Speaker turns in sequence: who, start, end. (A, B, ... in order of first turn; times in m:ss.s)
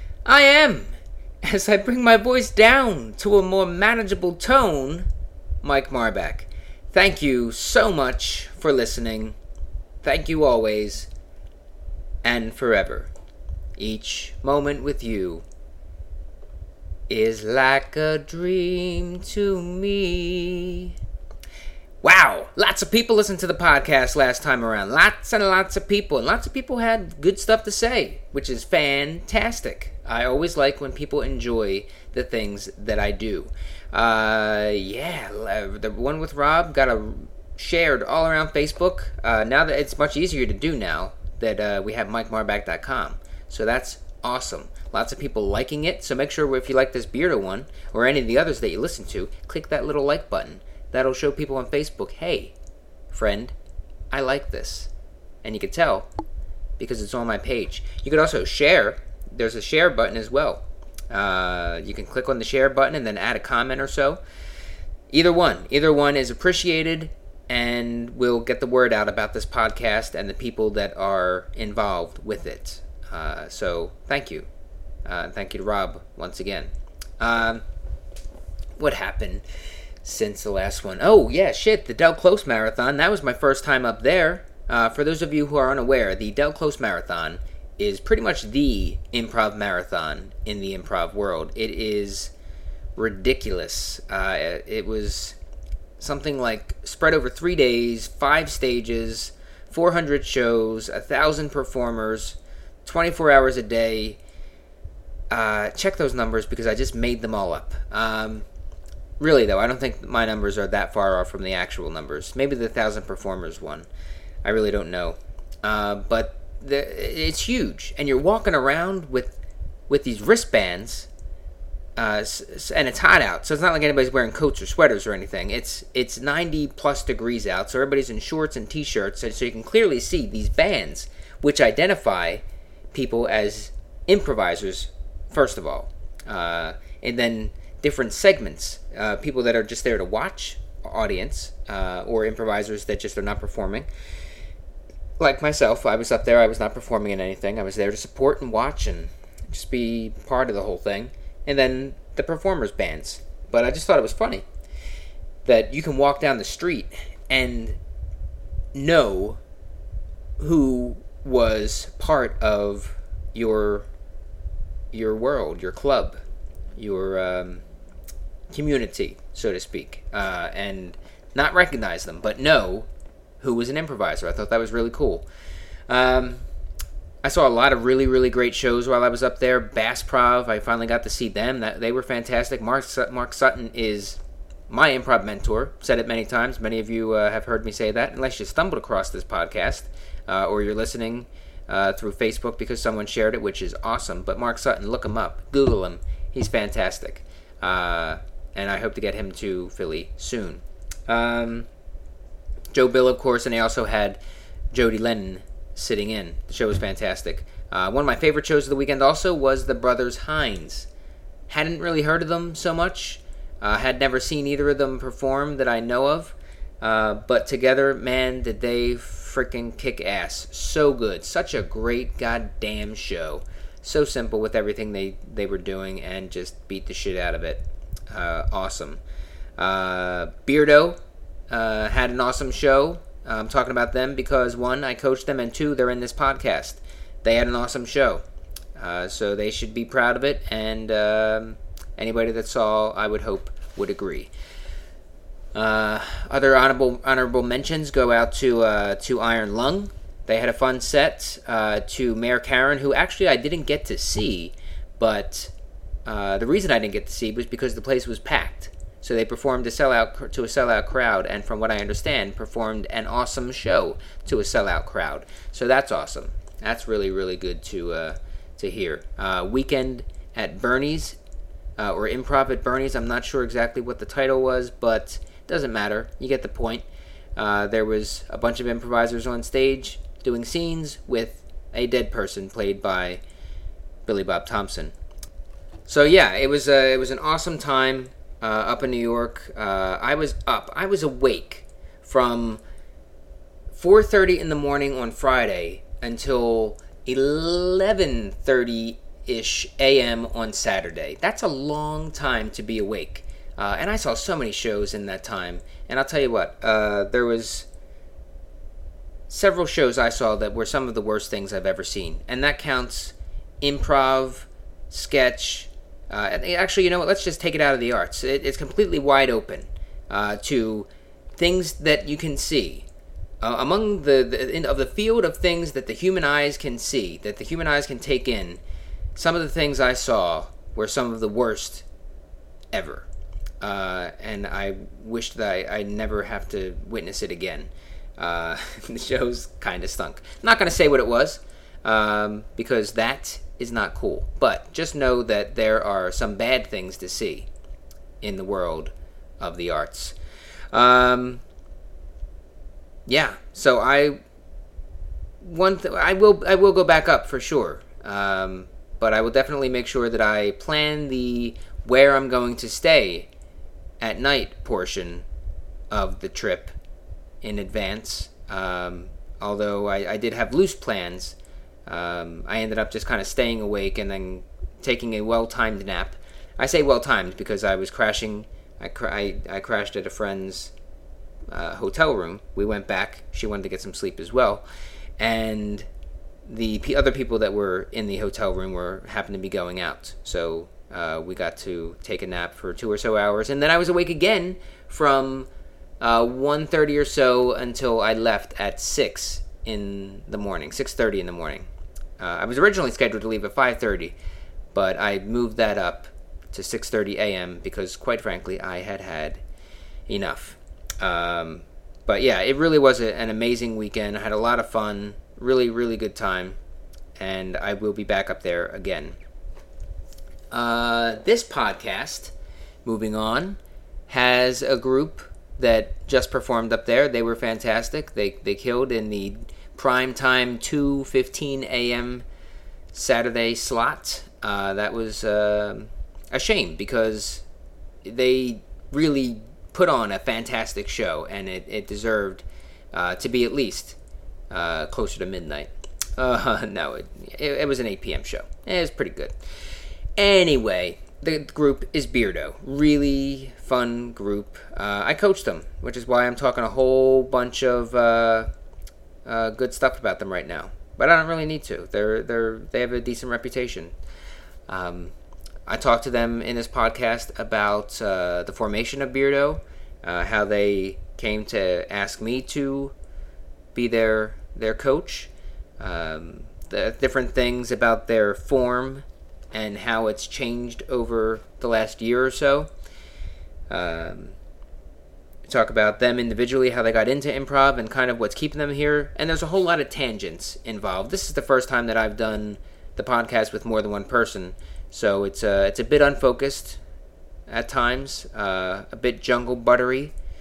0:00.2-0:05.1 A
0:05.6-0:09.4 A
0:10.0-0:11.1 A
0:12.2-0:13.1 A
0:13.8-0:15.4 A
0:17.1-0:20.9 A
0:22.0-0:52.5 A
0:53.1-0:53.5 A
0:54.1-0:54.9 A
0:55.4-0:56.1 A
0:56.8-1:04.2 A
1:05.1-1:14.5 A
1:15.0-1:17.6 A
1:18.8-1:19.4 A
1:20.0-1:32.3 A
1:33.0-1:35.4 A
1:36.0-1:44.2 A
1:45.3-1:48.4 A
1:49.2-1:53.9 A
1:54.4-1:59.3 A
1:59.9-2:01.1 A
2:02.0-2:23.9 A
2:25.2-2:34.4 A
2:35.4-2:37.8 A
2:38.7-2:39.4 A
2:40.4-2:43.8 A
2:44.9-2:46.2 A
2:46.8-2:47.6 A
2:48.5-2:52.9 A
2:53.4-2:55.2 A
2:55.9-2:56.4 A
2:57.2-3:21.7 A
3:22.7-3:24.2 A
3:24.7-3:30.9 A
3:31.5-3:49.0 A
3:49.6-3:51.0 A
3:51.5-3:58.2 A
3:58.8-4:04.3 A
4:05.5-4:15.5 A
4:16.0-4:31.2 A
4:31.8-4:36.8 A
4:37.4-4:43.2 A
4:44.0-4:44.9 A
4:45.9-4:52.6 A
4:53.7-5:07.7 A
5:09.3-5:22.8 A
5:23.4-5:28.6 A
5:29.2-5:31.8 A
5:32.7-5:33.0 A
5:33.6-5:47.5 A
5:48.2-5:50.2 A
5:50.7-5:51.4 A
5:53.1-5:54.2 A
5:55.4-6:03.3 A
6:04.0-6:05.2 A
6:05.9-6:06.7 A
6:07.4-6:11.3 A
6:11.9-6:20.7 A
6:21.5-6:24.6 A
6:25.2-6:25.9 A
6:26.4-6:35.5 A
6:36.0-6:41.7 A
6:42.2-6:44.1 A
6:44.7-6:49.4 A
6:50.1-6:56.6 A
6:57.2-6:59.2 A
7:00.5-7:02.3 A
7:02.8-7:12.2 A
7:12.9-7:17.4 A
7:18.0-7:24.0 A
7:24.5-7:29.3 A
7:30.2-7:38.5 A
7:39.2-7:43.9 A
7:44.7-7:45.1 A
7:45.6-7:52.9 A
7:53.7-8:02.7 A
8:03.7-8:04.3 A
8:05.4-8:16.8 A
8:17.5-8:20.1 A